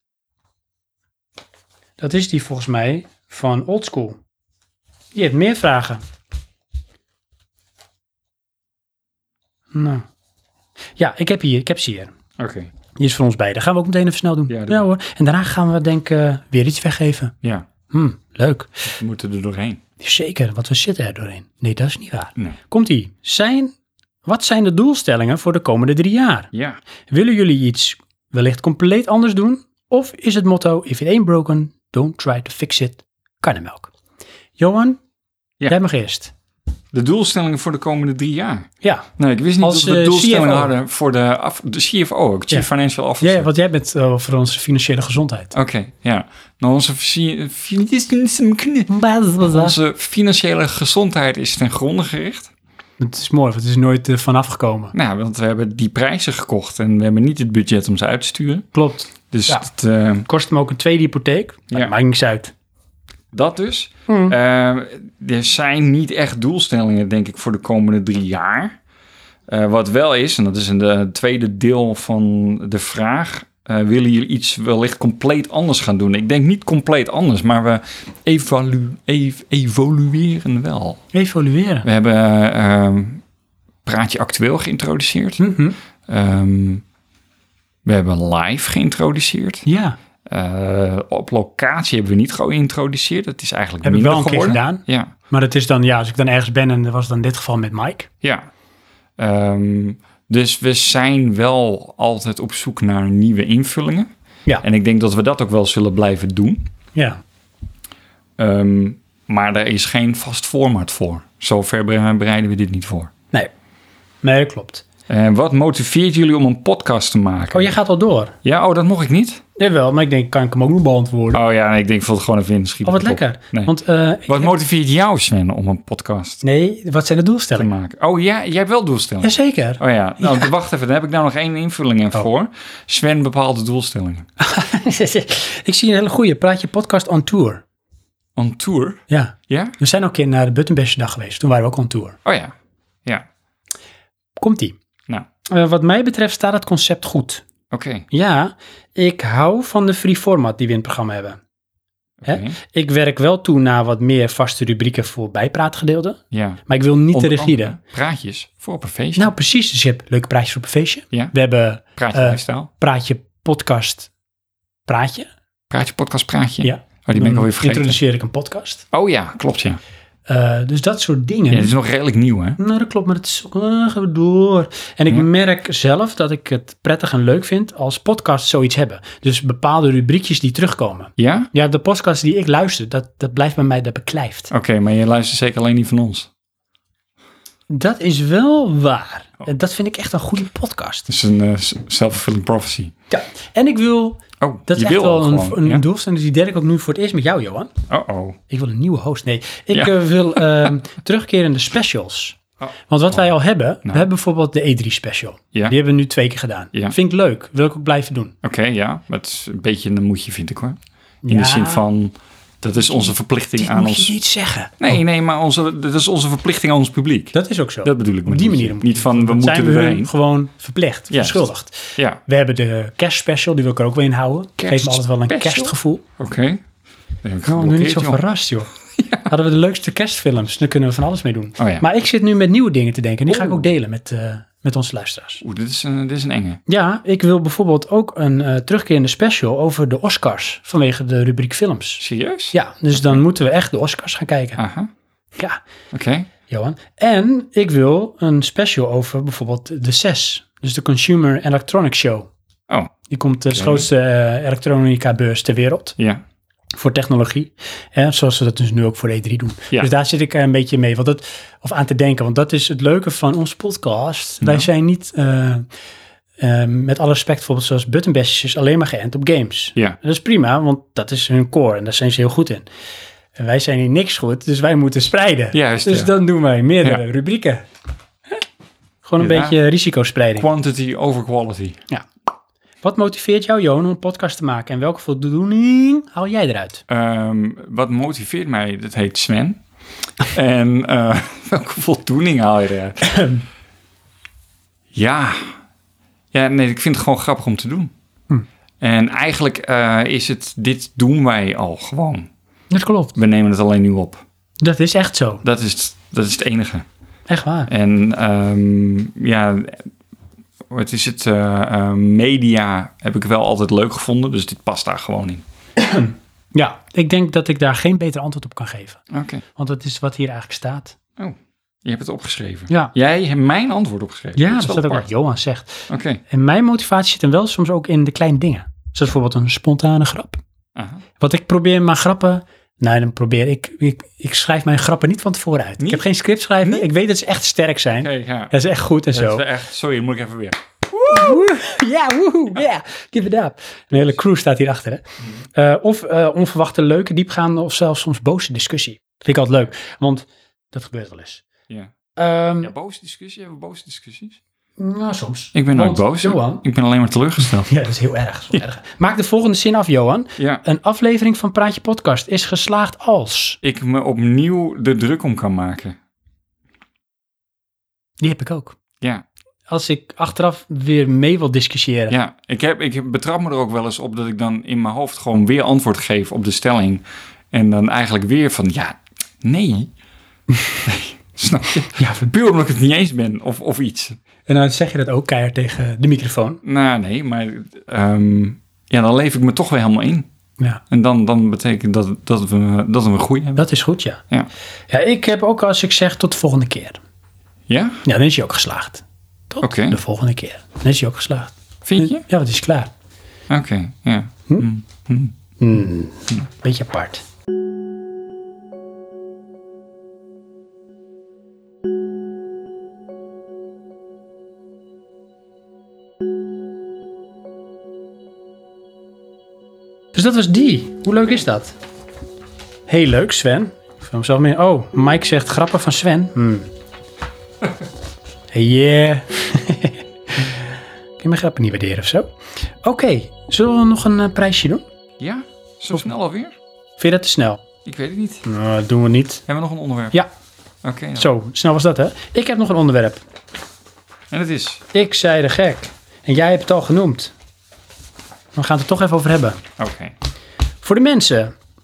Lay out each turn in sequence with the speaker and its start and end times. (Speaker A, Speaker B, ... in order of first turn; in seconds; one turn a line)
Speaker A: 2.0-4.2
Speaker A: 5.1-6.0
Speaker A: 9.7-10.1
Speaker A: 11.0-12.1
Speaker B: 12.4-12.7
Speaker A: 13.0-17.4
Speaker B: 14.5-14.8
Speaker A: 17.9-18.8
Speaker B: 18.9-19.8
Speaker A: 20.0-23.7
Speaker A: 24.2-26.5
Speaker B: 26.5-26.8
Speaker A: 27.1-33.9
Speaker A: 34.6-35.0
Speaker A: 35.7-36.3
Speaker B: 36.9-43.5
Speaker A: 38.8-39.1
Speaker A: 39.6-40.7
Speaker A: 43.2-45.5
Speaker B: 45.5-48.9
Speaker A: 48.9-49.8
Speaker B: 49.5-52.5
Speaker A: 53.0-54.9
Speaker B: 54.9-58.7
Speaker A: 58.7-59.7
Speaker B: 59.3-60.3
Speaker A: 60.3-62.5
Speaker B: 63.3-68.8
Speaker A: 64.1-64.4
Speaker B: 69.5-81.0
Speaker A: 81.1-81.9
Speaker B: 81.8-83.2
Speaker B: 83.8-85.4
Speaker A: 85.4-85.8
Speaker B: 86.1-86.8
Speaker B: 87.8-89.7
Speaker A: 89.7-90.0
Speaker B: 90.3-95.1
Speaker A: 93.8-98.1
Speaker B: 98.2-98.5
Speaker B: 99.2-104.1
Speaker B: 104.6-106.7
Speaker A: 107.0-107.2
Speaker B: 108.4-113.1
Speaker A: 114.2-114.8
Speaker B: 115.1-117.8
Speaker A: 117.5-118.4
Speaker B: 118.4-119.4
Speaker A: 119.6-121.4
Speaker B: 121.3-123.7
Speaker A: 122.8-124.5
Speaker B: 124.3-126.4
Speaker A: 126.4-127.7
Speaker B: 127.6-134.3
Speaker A: 129.2-130.5
Speaker A: 134.4-137.6
Speaker B: 138.4-139.8
Speaker A: 139.1-142.2
Speaker B: 142.2-143.3
Speaker A: 144.4-144.8
Speaker A: 145.5-147.4
Speaker B: 147.7-148.1
Speaker A: 148.1-151.4
Speaker B: 152.2-152.6
Speaker A: 152.3-157.8
Speaker B: 156.3-159.3
Speaker A: 159.2-164.1
Speaker B: 162.0-162.7
Speaker A: 164.9-165.3
Speaker B: 165.7-168.0
Speaker A: 166.6-168.8
Speaker B: 168.9-169.8
Speaker A: 170.3-171.8
Speaker B: 171.5-172.6
Speaker A: 172.6-184.5
Speaker B: 181.2-181.5
Speaker B: 184.5-186.3
Speaker A: 187.7-191.1
Speaker B: 191.1-192.9
Speaker A: 193.1-197.7
Speaker B: 194.4-195.8
Speaker B: 197.9-198.4
Speaker A: 198.5-208.3
Speaker B: 199.7-200.7
Speaker B: 202.6-203.2
Speaker B: 208.4-214.2
Speaker A: 211.2-211.8
Speaker A: 212.9-215.0
Speaker B: 214.8-220.1
Speaker A: 217.3-226.0
Speaker B: 221.1-222.2
Speaker B: 224.6-226.6
Speaker B: 227.2-228.2
Speaker A: 227.4-228.7
Speaker B: 228.9-229.3
Speaker A: 229.3-235.4
Speaker B: 231.6-231.8
Speaker B: 233.3-233.7
Speaker B: 235.4-236.6
Speaker A: 236.7-244.6
Speaker B: 242.0-242.6
Speaker B: 244.6-244.9
Speaker A: 245.4-245.6
Speaker B: 245.9-246.3
Speaker A: 246.5-252.3
Speaker A: 253.1-256.0
Speaker B: 253.5-253.9
Speaker B: 256.0-256.2
Speaker A: 256.8-265.7
Speaker B: 264.4-264.7
Speaker A: 266.4-272.6
Speaker A: 273.4-277.6
Speaker B: 275.5-276.1
Speaker A: 279.0-280.5
Speaker B: 279.2-279.6
Speaker B: 280.4-281.8
Speaker A: 282.8-286.8
Speaker B: 286.9-289.6
Speaker B: 290.2-293.2
Speaker A: 293.1-293.4
Speaker B: 294.9-295.6
Speaker B: 296.3-297.9
Speaker B: 298.8-302.3
Speaker A: 302.7-303.1
Speaker B: 303.1-304.2
Speaker A: 304.6-305.4
Speaker B: 305.4-306.9
Speaker A: 307.3-307.7
Speaker B: 307.7-309.9
Speaker B: 310.7-315.4
Speaker A: 315.8-319.0
Speaker B: 319.1-319.4
Speaker A: 319.6-321.0
Speaker B: 321.2-325.1
Speaker A: 324.4-330.4
Speaker B: 325.9-326.2
Speaker B: 330.8-331.0
Speaker A: 331.2-339.4
Speaker B: 335.8-336.0
Speaker B: 336.6-336.9
Speaker B: 338.0-338.5
Speaker B: 339.1-341.5
Speaker A: 341.1-345.0
Speaker A: 345.5-351.4
Speaker A: 352.2-352.7
Speaker B: 352.6-354.4
Speaker A: 354.8-356.6
Speaker B: 355.5-357.7
Speaker A: 357.4-363.6
Speaker B: 360.4-360.6
Speaker B: 363.6-366.0
Speaker A: 368.2-368.8
Speaker A: 369.7-372.1
Speaker B: 372.1-379.9
Speaker B: 380.9-384.2
Speaker A: 382.0-382.2
Speaker A: 384.5-386.6
Speaker B: 386.6-390.3
Speaker B: 390.9-393.6
Speaker A: 393.6-394.2
Speaker A: 394.9-397.0
Speaker B: 397.7-398.0
Speaker A: 398.1-402.9
Speaker B: 399.6-400.0
Speaker B: 401.9-402.2
Speaker B: 403.5-405.3
Speaker A: 405.6-407.2
Speaker A: 420.1-421.8
Speaker A: 422.9-426.7
Speaker A: 428.5-430.6
Speaker A: 431.2-432.3
Speaker A: 432.8-434.8
Speaker B: 435.2-436.6
Speaker A: 437.0-437.6
Speaker B: 437.9-438.4
Speaker A: 438.4-439.4
Speaker B: 439.5-440.2
Speaker B: 440.8-441.3
Speaker A: 441.2-443.2
Speaker B: 444.3-444.9
Speaker A: 444.9-447.3
Speaker A: 448.6-449.6
Speaker B: 449.8-450.1
Speaker A: 450.8-451.5